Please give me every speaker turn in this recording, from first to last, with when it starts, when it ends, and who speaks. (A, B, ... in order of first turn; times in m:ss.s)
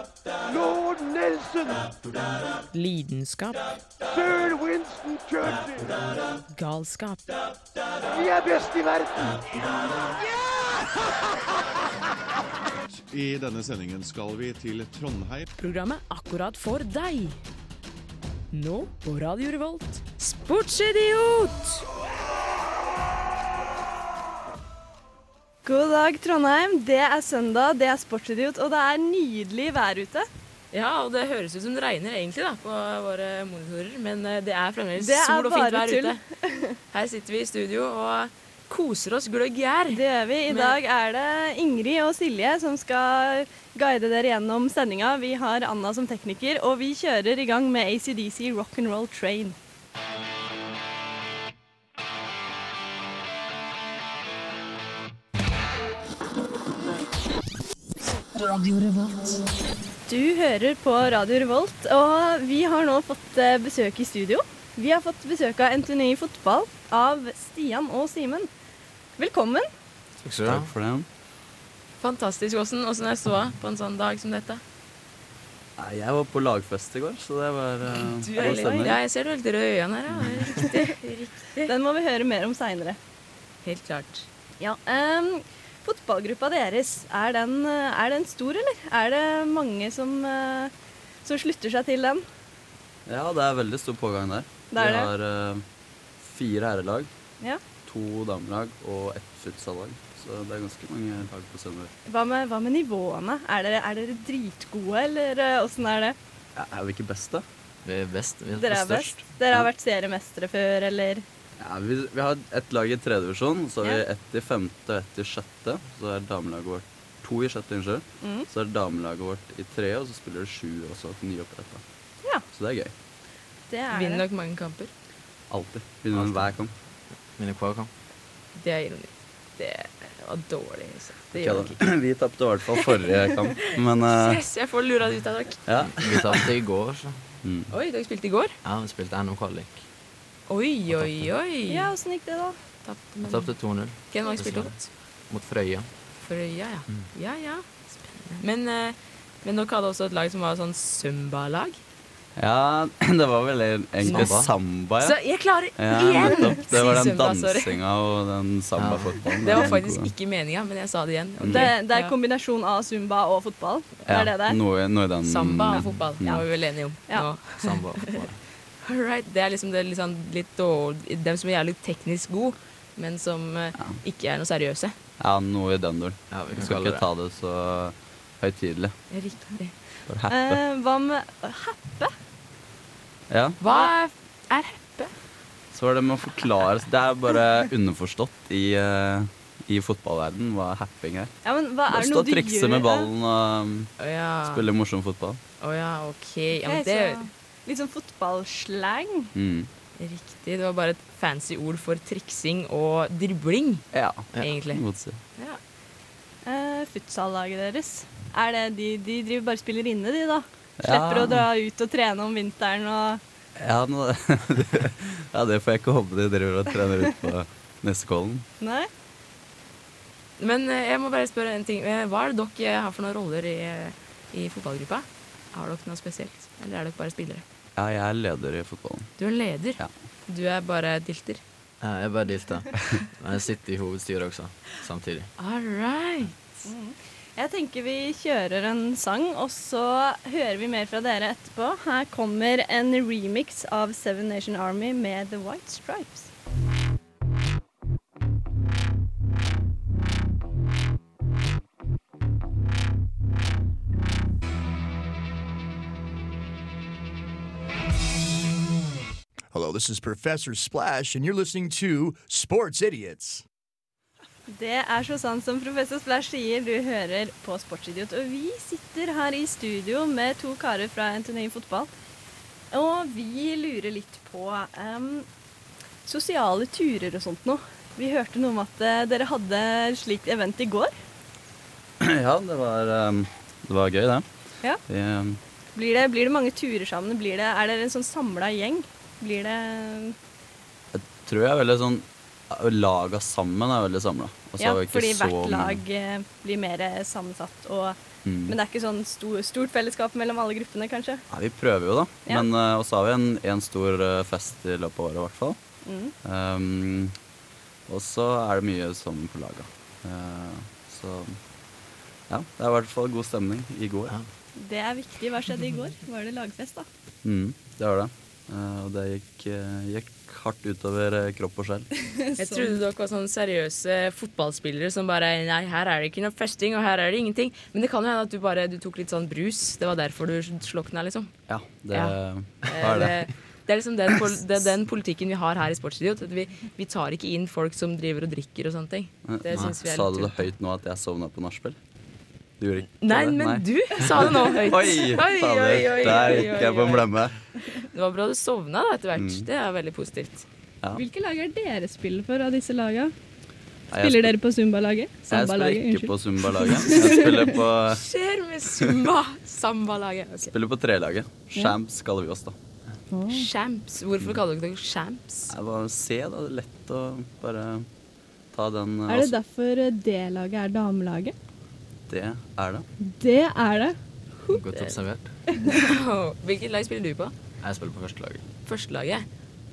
0:00.4-0:01.9 A
0:02.7-0:03.7 B
0:04.1-0:05.9 A
0:06.5-0:07.3 B
0:08.1-0:09.4 A
0:10.3-0:10.6 A
0:12.9-0:15.5 C
0:15.6-0:17.4 B
0:18.5-0:21.8 B
0:25.6-0:30.3 D
0:30.7-0:36.2 B
0:35.0-0:36.8 D
0:36.9-0:40.8 B
0:39.9-0:49.6 D
1:00.0-1:08.5 D
1:09.2-1:09.7 D
1:10.2-1:10.7 E
1:10.4-1:11.1 F
1:12.0-1:14.6 B
1:15.8-1:19.0 F
1:18.2-1:21.7 B
1:18.4-1:18.9 D
1:21.7-1:23.0 D
1:23.6-1:24.3 B
1:24.6-1:30.7 D
1:31.2-1:32.2 D
1:33.0-1:35.6 F
1:34.7-1:35.1 D
1:36.2-1:37.1 F
1:37.8-1:41.9 F
1:42.0-1:46.2 D
1:46.5-1:47.4 F
1:47.8-1:49.2 E
1:48.6-1:51.2 D
1:51.6-2:01.8 F
1:58.2-1:58.5 D
2:02.4-2:02.9 F
2:03.7-2:04.2 D
2:03.9-2:04.9 B
2:05.5-2:06.7 F
2:06.1-2:06.7 E
2:07.3-2:07.9 E
2:08.6-2:12.0 B
2:11.3-2:14.4 F
2:14.1-2:15.6 B
2:15.6-2:16.5 F
2:15.9-2:17.2 E
2:17.4-2:17.7 F
2:17.7-2:18.6 B
2:18.6-2:19.8 E
2:20.5-2:21.9 B
2:20.9-2:21.3 E
2:21.7-2:22.6 D
2:22.8-2:24.9 B
2:23.2-2:25.9 E
2:26.2-2:31.8 B
2:32.4-2:40.1 F
2:34.0-2:34.5 E
2:34.1-2:34.3 B
2:35.0-2:37.8 B
2:38.8-2:39.6 E
2:39.4-2:42.1 B
2:41.4-2:41.7 F
2:41.5-2:44.6 D
2:44.1-2:46.4 F
2:45.2-2:47.8 B
2:45.8-2:46.0 E
2:47.5-2:48.4 E
2:48.8-2:55.0 B
2:55.2-2:59.0 F
2:56.3-2:57.1 E
2:59.1-2:59.8 B
3:00.1-3:00.6 F
3:00.3-3:02.1 D
3:03.3-3:03.6 F
3:03.6-3:05.2 B
3:05.7-3:11.3 F
3:11.4-3:13.1 D
3:11.9-3:13.9 F
3:14.0-3:14.7 B
3:14.4-3:15.4 F
3:15.6-3:17.2 B
3:16.6-3:19.3 D
3:19.3-3:19.7 F
3:20.0-3:23.8 B
3:23.9-3:25.2 F
3:24.4-3:24.8 B
3:26.4-3:33.2 D
3:30.8-3:31.5 F
3:33.6-3:38.5 F
3:38.6-3:38.9 D
3:40.4-3:47.4 B
3:47.8-3:49.2 F
3:49.2-3:51.4 B
3:51.8-3:55.3 E
3:55.4-3:56.7 B
3:56.6-4:06.3 D
4:19.5-4:23.4 G
4:24.5-4:31.9 D
4:32.7-4:35.3 D
4:36.0-4:41.0 D
4:42.0-4:45.4 F
4:45.7-4:50.2 D
4:50.9-4:55.8 F
4:54.6-5:01.2 D
4:58.2-4:58.6 F
5:01.3-5:07.2 F
5:05.8-5:06.1 D
5:07.9-5:11.4 F
5:12.3-5:14.2 F
5:14.6-5:16.9 D
5:17.2-5:21.9 F
5:22.4-5:31.3 B
5:22.4-5:22.7 D
5:31.5-5:33.3 F
5:31.9-5:40.5 B
5:39.2-5:41.8 F
5:42.6-5:47.4 F
5:43.0-5:47.1 B
5:47.9-5:50.5 B
5:49.2-5:49.4 F
5:50.9-5:53.1 D
5:53.9-5:54.3 F
5:53.9-5:57.4 D
5:55.3-5:58.0 F
5:56.9-5:57.3 B
5:57.9-6:00.5 B
6:00.5-6:02.5 F
6:03.1-6:03.5 D
6:03.3-6:05.5 B
6:05.5-6:07.9 F
6:08.5-6:09.4 F
6:09.1-6:11.3 D
6:12.1-6:12.9 F
6:13.0-6:14.0 D
6:14.5-6:15.4 E
6:14.7-6:15.0 B
6:15.5-6:17.3 B
6:17.6-6:18.4 E
6:18.6-6:19.3 B